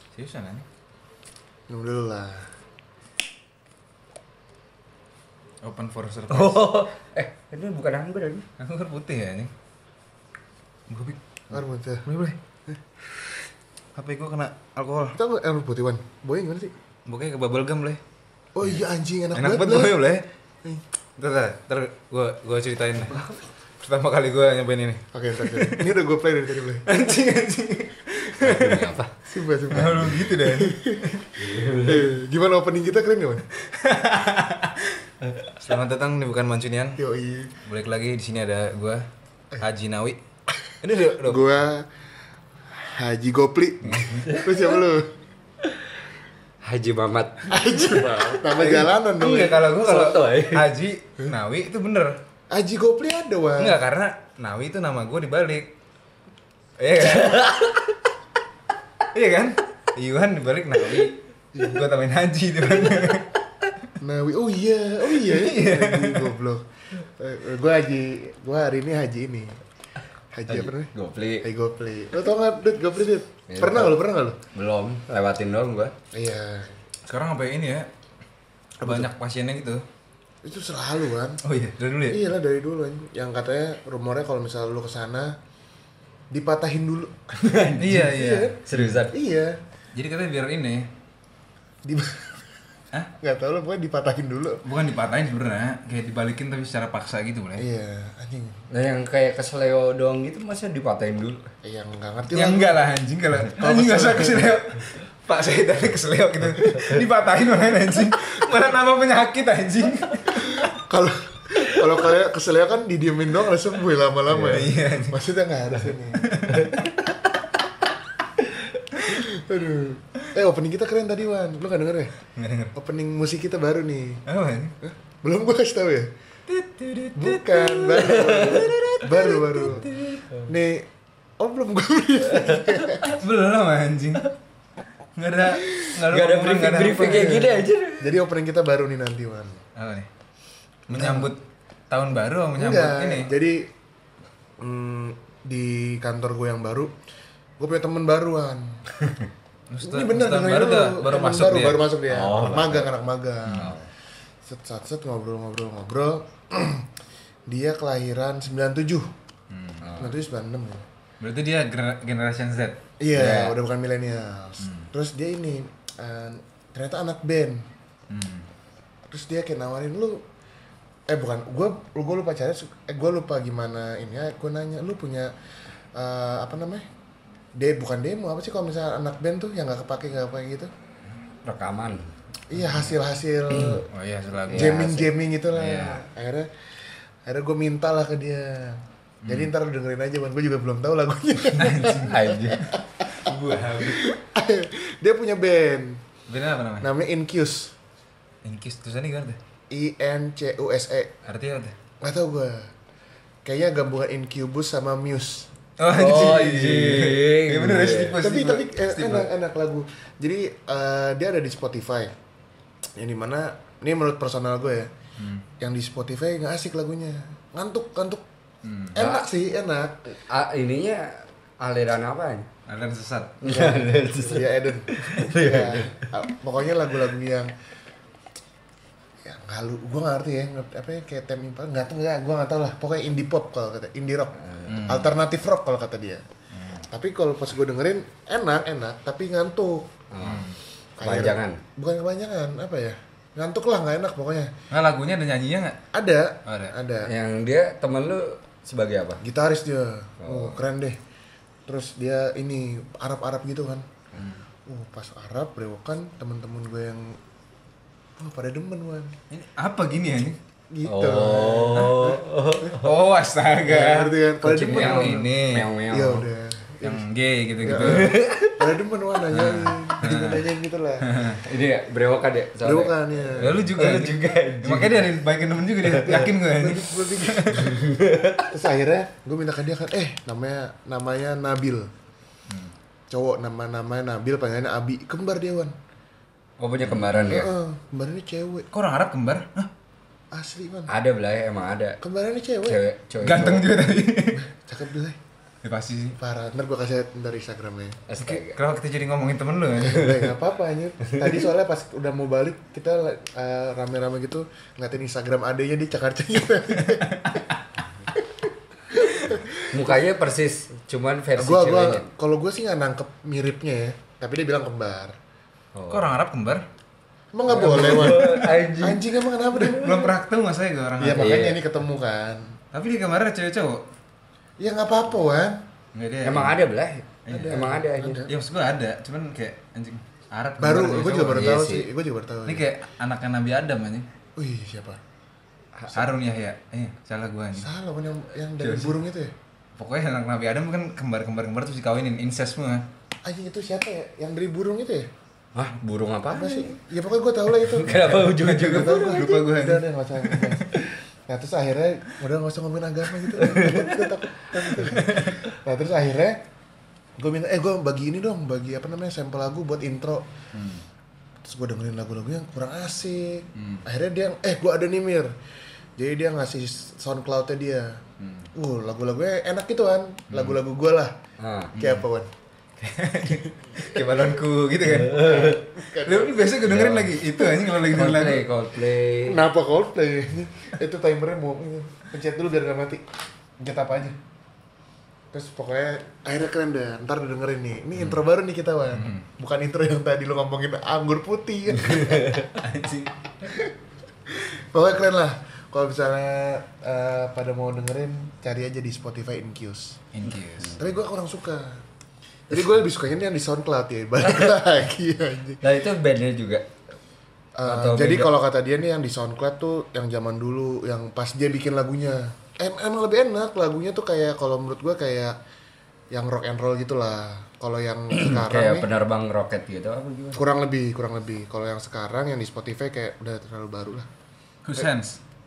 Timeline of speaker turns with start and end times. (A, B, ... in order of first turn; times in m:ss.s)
0:00.2-0:00.6 A
0:01.7-0:02.5 B
0:05.6-0:06.7 A
0:06.3-0:08.4 C
0:08.6-0:09.5 A
0:10.9-0:12.4 A
0:11.5-0:12.1 B
0:14.0-0:15.2 A
0:15.1-0:16.7 B
0:17.1-0:18.0 A
0:18.6-0:20.0 B
0:19.3-0:20.2 A
0:21.2-0:23.3 A
0:23.8-0:25.9 A
0:25.1-0:26.9 B
0:26.9-0:29.0 A
0:28.4-0:29.1 C
0:29.2-0:33.5 B
0:29.7-0:31.3 A
0:31.4-0:32.1 C
0:33.6-0:37.0 A
0:37.0-0:37.5 B
0:37.6-0:39.1 A
0:39.6-0:40.2 A
0:40.8-0:41.4 A
0:41.0-0:41.9 B
0:42.7-0:45.1 B
0:46.6-0:50.7 C
0:47.5-0:49.6 B
0:49.3-0:52.2 A
0:52.5-0:53.8 B
0:53.6-0:55.7 A
0:56.8-0:57.7 A
0:57.0-0:57.9 C
0:59.1-1:03.3 A
1:01.6-1:01.8 B
1:04.0-1:09.6 B
1:05.1-1:06.4 A
1:10.3-1:10.9 B
1:10.5-1:11.5 C
1:11.4-1:14.4 B
1:13.5-1:14.0 C
1:14.5-1:15.9 C
1:16.1-1:16.8 B
1:17.1-1:17.9 A
1:18.8-1:19.1 B
1:18.8-1:19.8 A
1:20.4-1:21.4 B
1:21.4-1:22.2 A
1:22.1-1:25.4 B
1:26.3-1:29.6 B
1:27.4-1:28.1 C
1:27.8-1:29.0 A
1:28.7-1:29.2 C
1:30.0-1:30.9 A
1:31.8-1:32.5 B
1:33.2-1:34.6 B
1:34.6-1:37.7 A
1:37.6-1:38.6 B
1:38.7-1:41.4 C
1:41.6-1:42.8 B
1:42.3-1:50.6 A
1:43.6-1:44.6 B
1:50.4-1:56.6 B
1:54.4-1:55.2 A
1:56.2-1:56.9 A
1:59.0-2:02.2 B
2:02.4-2:02.7 A
2:02.7-2:04.2 B
2:04.3-2:04.7 A
2:04.8-2:06.1 B
2:06.5-2:09.9 A
2:07.2-2:09.9 B
2:08.0-2:08.8 C
2:10.4-2:10.9 B
2:11.4-2:13.2 B
2:12.5-2:12.8 C
2:13.0-2:14.3 A
2:15.2-2:17.4 A
2:16.1-2:18.1 C
2:17.1-2:19.6 B
2:19.8-2:20.1 A
2:20.9-2:21.3 B
2:20.9-2:23.3 A
2:22.6-2:23.7 B
2:24.6-2:26.9 B
2:27.6-2:28.8 B
2:29.7-2:31.9 A
2:29.8-2:33.8 B
2:32.1-2:32.9 C
2:33.5-2:33.8 A
2:33.5-2:33.9 C
2:34.4-2:36.9 B
2:37.5-2:39.1 B
2:39.5-2:39.8 A
2:39.8-2:40.2 C
2:40.0-2:40.8 B
2:41.2-2:42.8 A
2:43.0-2:47.7 B
2:43.1-2:43.6 C
2:44.6-2:44.9 A
2:48.1-2:48.5 A
2:49.1-2:50.2 B
2:51.1-2:55.3 B
2:56.0-2:56.9 B
2:57.6-3:00.7 B
3:01.4-3:02.1 C
3:02.5-3:03.9 B
3:02.6-3:02.9 A
3:03.9-3:04.8 A
3:04.5-3:05.1 C
3:04.5-3:06.5 B
3:05.5-3:06.0 A
3:07.2-3:16.0 B
3:09.2-3:09.5 A
3:11.6-3:14.1 A
3:12.0-3:12.7 C
3:16.3-3:16.9 A
3:16.8-3:17.8 B
3:18.4-3:19.4 A
3:19.7-3:21.1 B
3:21.2-3:21.8 A
3:22.0-3:22.7 B
3:23.4-3:25.5 B
3:25.8-3:29.3 A
3:25.9-3:28.2 C
3:28.2-3:32.1 B
3:33.0-3:34.9 B
3:35.2-3:35.4 A
3:35.6-3:38.2 B
3:38.6-3:39.0 A
3:38.9-3:40.1 B
3:39.0-3:39.2 C
3:40.3-3:42.5 C
3:42.7-3:43.4 A
3:43.4-3:46.1 C
3:43.4-3:47.5 B
3:49.2-3:56.2 B
3:54.7-3:55.1 A
3:56.6-3:56.8 A
3:56.9-3:59.9 B
4:00.1-4:00.5 C
4:00.2-4:00.6 A
4:01.0-4:04.5 B
4:01.0-4:01.6 C
4:04.7-4:05.8 A
4:05.9-4:07.1 B
4:06.5-4:06.7 A
4:07.0-4:09.2 C
4:09.2-4:11.0 B
4:10.2-4:10.6 C
4:11.7-4:13.9 B
4:14.2-4:14.4 A
4:14.7-4:17.2 B
4:18.2-4:19.1 B
4:19.3-4:20.4 A
4:20.7-4:22.8 B
4:20.8-4:22.9 C
4:22.8-4:25.7 A
4:23.6-4:25.3 B
4:24.4-4:26.3 C
4:25.9-4:27.0 B
4:26.8-4:28.2 A
4:27.6-4:31.1 B
4:27.7-4:28.6 C
4:29.3-4:30.5 A
4:31.0-4:31.4 A
4:31.4-4:35.1 C
4:32.6-4:33.7 B
4:33.3-4:37.7 A
4:35.8-4:36.3 C
4:36.4-4:37.8 B
4:37.6-4:38.5 C
4:38.5-4:41.9 B
4:43.1-4:45.8 B
4:46.6-4:47.5 C
4:46.8-4:47.4 A
4:47.3-4:48.7 B
4:48.7-4:49.7 A
4:50.3-4:50.9 B
4:50.9-4:52.0 C
4:52.0-4:52.8 B
4:52.6-4:53.7 C
4:53.2-4:54.5 A
4:54.3-4:55.2 B
4:55.6-4:56.2 A
4:56.2-4:58.0 B
4:58.1-4:58.6 C
4:58.2-5:00.3 A
4:59.8-5:07.2 B
5:06.8-5:07.6 A
5:08.9-5:09.9 B
5:09.7-5:12.1 C
5:11.4-5:15.2 B
5:15.8-5:16.1 C
5:15.9-5:16.6 A
5:17.3-5:19.9 B
5:17.5-5:20.1 C
5:17.8-5:18.5 A
5:19.7-5:21.6 A
5:21.0-5:22.5 B
5:21.2-5:21.5 C
5:22.7-5:23.8 A
5:24.6-5:25.6 B
5:25.9-5:26.6 A
5:26.2-5:28.3 C
5:27.3-5:27.7 A
5:27.3-5:28.3 B
5:28.3-5:31.6 A
5:30.6-5:32.7 B
5:31.3-5:31.9 C
5:32.5-5:34.1 A
5:34.4-5:35.0 B
5:35.9-5:37.7 A
5:37.6-5:39.3 B
5:39.8-5:42.8 A
5:43.2-5:45.1 B
5:45.6-5:46.7 C
5:46.3-5:48.1 B
5:47.6-5:49.3 C
5:47.9-5:50.8 A
5:48.6-5:50.8 B
5:51.3-5:56.4 B
5:53.4-5:54.1 C
5:54.8-5:55.4 A
5:57.2-6:00.3 B
6:00.5-6:00.8 A
6:01.4-6:05.3 B
6:03.6-6:03.8 A
6:06.0-6:08.0 B
6:08.2-6:08.5 A
6:08.5-6:11.1 B
6:10.3-6:10.6 A
6:11.4-6:11.8 C
6:11.8-6:12.0 A
6:11.8-6:12.3 B
6:12.8-6:18.4 A
6:13.3-6:14.4 B
6:14.8-6:15.7 C
6:15.1-6:16.6 B
6:16.6-6:17.3 C
6:17.8-6:19.4 C
6:19.2-6:23.0 B
6:23.6-6:24.2 B
6:25.3-6:32.4 B
6:29.0-6:29.2 A
6:32.4-6:33.1 A
6:33.4-6:33.7 B
6:34.3-6:40.0 B
6:40.1-6:40.8 A
6:40.7-6:41.8 B
6:42.5-6:45.6 B
6:44.2-6:44.6 C
6:45.6-6:46.7 C
6:47.6-6:55.4 B
6:47.7-6:48.3 C
6:56.1-6:58.9 B
6:58.1-7:00.4 C
7:00.4-7:04.1 B
7:04.6-7:05.2 A